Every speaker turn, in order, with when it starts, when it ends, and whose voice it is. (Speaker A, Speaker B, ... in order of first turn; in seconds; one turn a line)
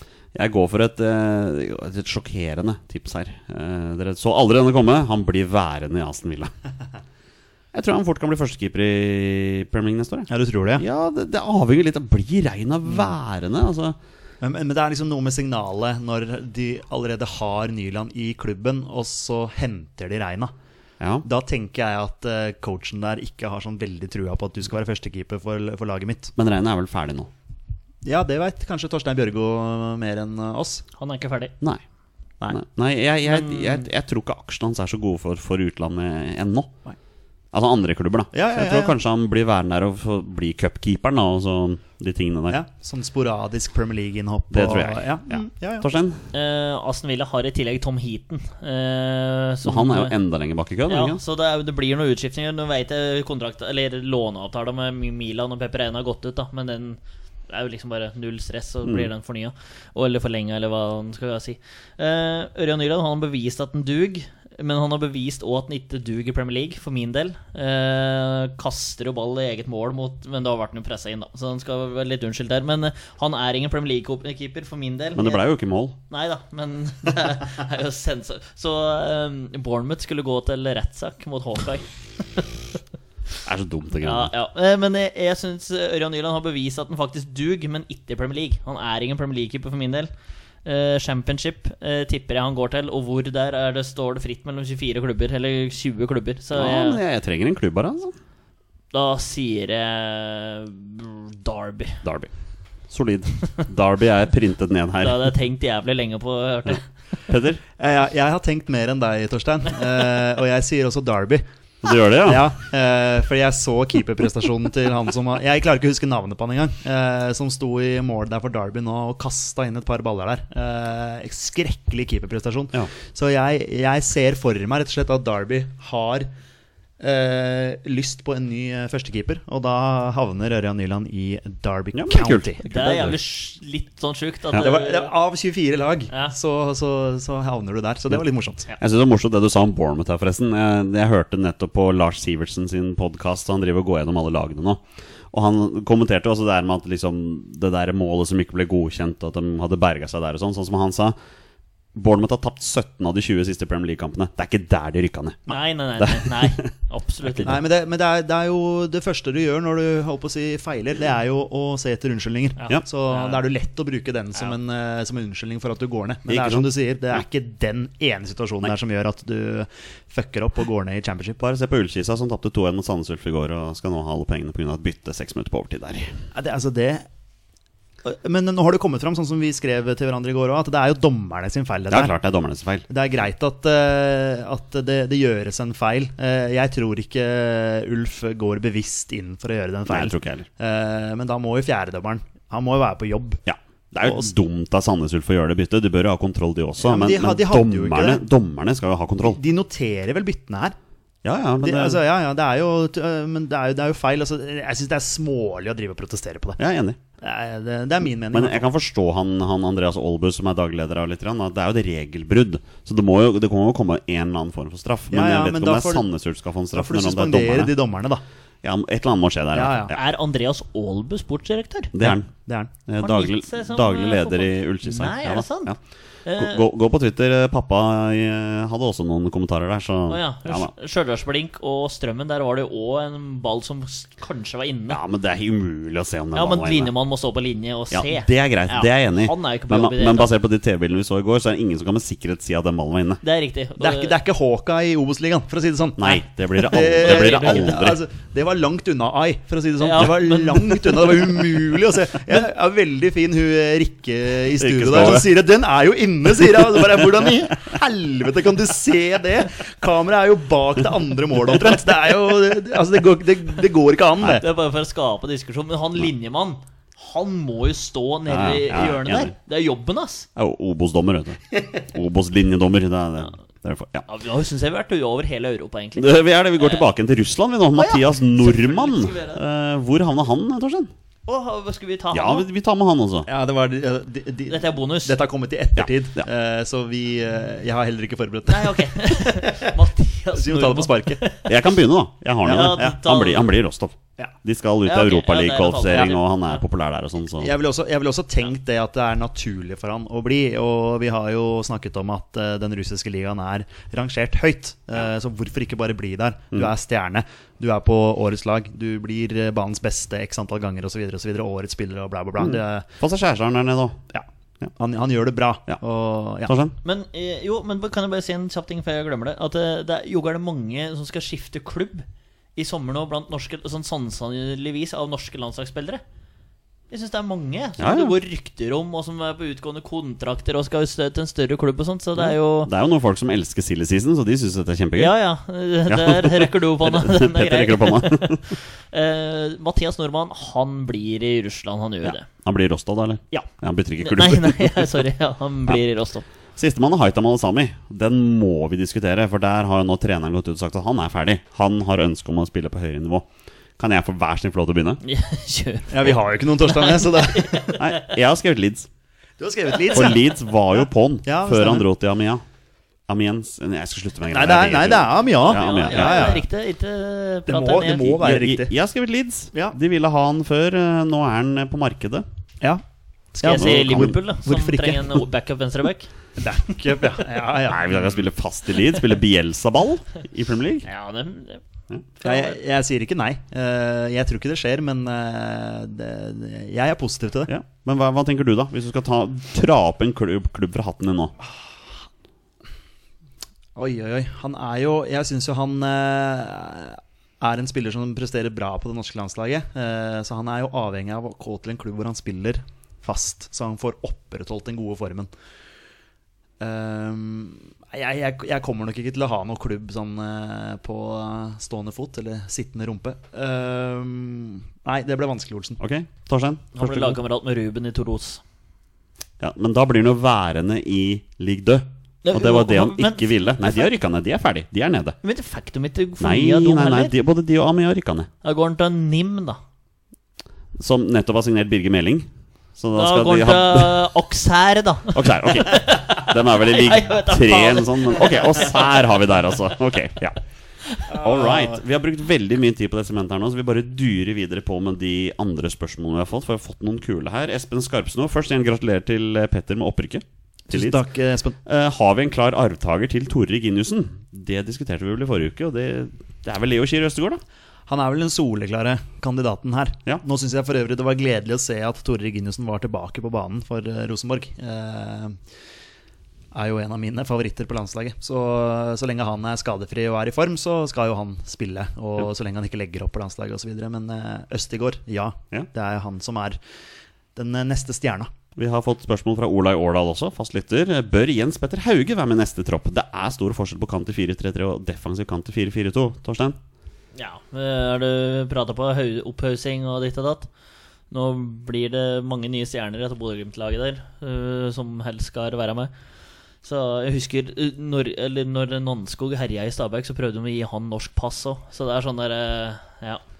Speaker A: 0.3-6.5
Speaker A: 7.7-14.0
Speaker B: 10.3-10.8
Speaker B: 14.4-20.5
Speaker B: 21.2-26.3
Speaker A: 26.4-27.3
Speaker B: 28.0-30.8
Speaker C: 31.0-31.5
Speaker A: 32.5-36.7
Speaker A: 37.5-42.6
Speaker B: 38.3-38.9
Speaker B: 42.5-45.9
Speaker A: 44.5-46.3
Speaker C: 46.3-50.1
Speaker A: 49.6-51.2
Speaker C: 50.9-75.4
Speaker A: 75.1-76.0
Speaker C: 76.1-82.5
Speaker A: 83.4-84.3
Speaker C: 84.0-90.1
Speaker C: 90.6-97.0
Speaker A: 96.5-98.1
Speaker C: 98.9-102.0
Speaker A: 102.0-102.3
Speaker A: 102.9-105.3
Speaker C: 105.0-106.9
Speaker A: 107.3-107.6
Speaker B: 107.8-111.4
Speaker A: 111.8-112.4
Speaker B: 112.2-126.3
Speaker B: 127.0-132.6
Speaker A: 131.9-133.2
Speaker C: 132.6-135.1
Speaker B: 134.5-138.7
Speaker A: 138.8-151.2
Speaker A: 151.9-155.4
Speaker C: 155.5-157.6
Speaker A: 156.0-156.7
Speaker A: 157.2-157.5
Speaker B: 157.4-171.4
Speaker C: 162.6-163.4
Speaker A: 166.3-167.2
Speaker A: 171.4-176.2
Speaker B: 176.3-177.1
Speaker B: 178.0-182.1
Speaker A: 181.9-182.8
Speaker B: 182.9-193.4
Speaker A: 189.9-190.4
Speaker A: 193.4-199.4
Speaker B: 193.9-194.3
Speaker B: 196.8-198.2
Speaker B: 199.2-200.8
Speaker A: 201.2-202.0
Speaker B: 201.6-206.6
Speaker A: 206.6-207.0
Speaker B: 207.2-208.7
Speaker A: 208.3-217.7
Speaker B: 215.1-216.1
Speaker B: 216.7-218.2
Speaker A: 218.6-220.0
Speaker B: 219.5-219.9
Speaker C: 219.9-221.9
Speaker A: 221.9-230.7
Speaker B: 222.0-222.7
Speaker C: 223.0-225.7
Speaker C: 226.2-226.6
Speaker C: 230.1-235.0
Speaker A: 234.9-236.9
Speaker C: 236.3-240.3
Speaker A: 237.9-243.2
Speaker C: 243.2-244.1
Speaker B: 243.8-264.4
Speaker A: 246.0-248.0
Speaker C: 247.0-247.7
Speaker C: 249.8-250.8
Speaker A: 254.6-255.3
Speaker A: 256.8-257.1
Speaker C: 264.2-270.3
Speaker A: 268.3-269.3
Speaker A: 270.4-274.1
Speaker C: 274.1-276.8
Speaker A: 276.0-280.9
Speaker C: 277.7-279.4
Speaker C: 281.2-282.4
Speaker A: 282.1-283.3
Speaker B: 283.2-289.8
Speaker C: 284.5-285.2
Speaker A: 285.8-286.3
Speaker C: 288.5-291.5
Speaker B: 290.3-291.2
Speaker A: 291.4-297.5
Speaker B: 292.4-293.0
Speaker C: 292.4-293.5
Speaker C: 294.8-296.6
Speaker B: 297.4-312.9
Speaker A: 312.4-314.0
Speaker B: 314.1-316.5
Speaker A: 316.4-316.7
Speaker C: 316.8-326.0
Speaker C: 326.9-332.7
Speaker A: 327.8-328.1
Speaker A: 332.1-335.2
Speaker C: 334.9-342.2
Speaker A: 335.9-338.5
Speaker A: 342.0-344.9
Speaker C: 344.0-346.2
Speaker A: 346.6-353.3
Speaker A: 353.8-355.0
Speaker C: 355.0-358.1
Speaker B: 355.9-357.8
Speaker A: 357.8-358.9
Speaker B: 359.4-360.2
Speaker C: 359.8-360.1
Speaker A: 359.9-362.4
Speaker B: 361.2-361.9
Speaker A: 363.1-366.4
Speaker B: 364.3-366.4
Speaker C: 365.4-368.1
Speaker B: 367.5-368.7
Speaker A: 368.1-372.2
Speaker B: 373.3-375.2
Speaker C: 373.4-376.1
Speaker A: 373.5-374.1
Speaker B: 376.4-378.2
Speaker A: 377.7-380.9
Speaker C: 380.8-381.6
Speaker C: 382.2-382.6
Speaker B: 382.2-387.5
Speaker A: 387.5-391.3
Speaker B: 391.4-391.8
Speaker B: 393.8-405.3
Speaker B: 406.6-415.8
Speaker A: 415.8-417.1
Speaker C: 416.8-418.4
Speaker A: 419.4-425.2
Speaker C: 422.2-423.9
Speaker C: 425.2-427.1
Speaker A: 426.2-428.3
Speaker C: 428.4-429.6
Speaker A: 430.8-434.0
Speaker C: 432.9-439.0
Speaker A: 435.1-440.4
Speaker A: 441.0-451.0
Speaker B: 441.1-441.8
Speaker B: 450.7-451.6
Speaker A: 451.6-457.4
Speaker B: 457.9-465.4
Speaker B: 466.5-476.6
Speaker B: 477.3-478.3
Speaker A: 478.5-486.6
Speaker C: 487.1-490.5
Speaker C: 491.1-495.9
Speaker C: 496.6-503.2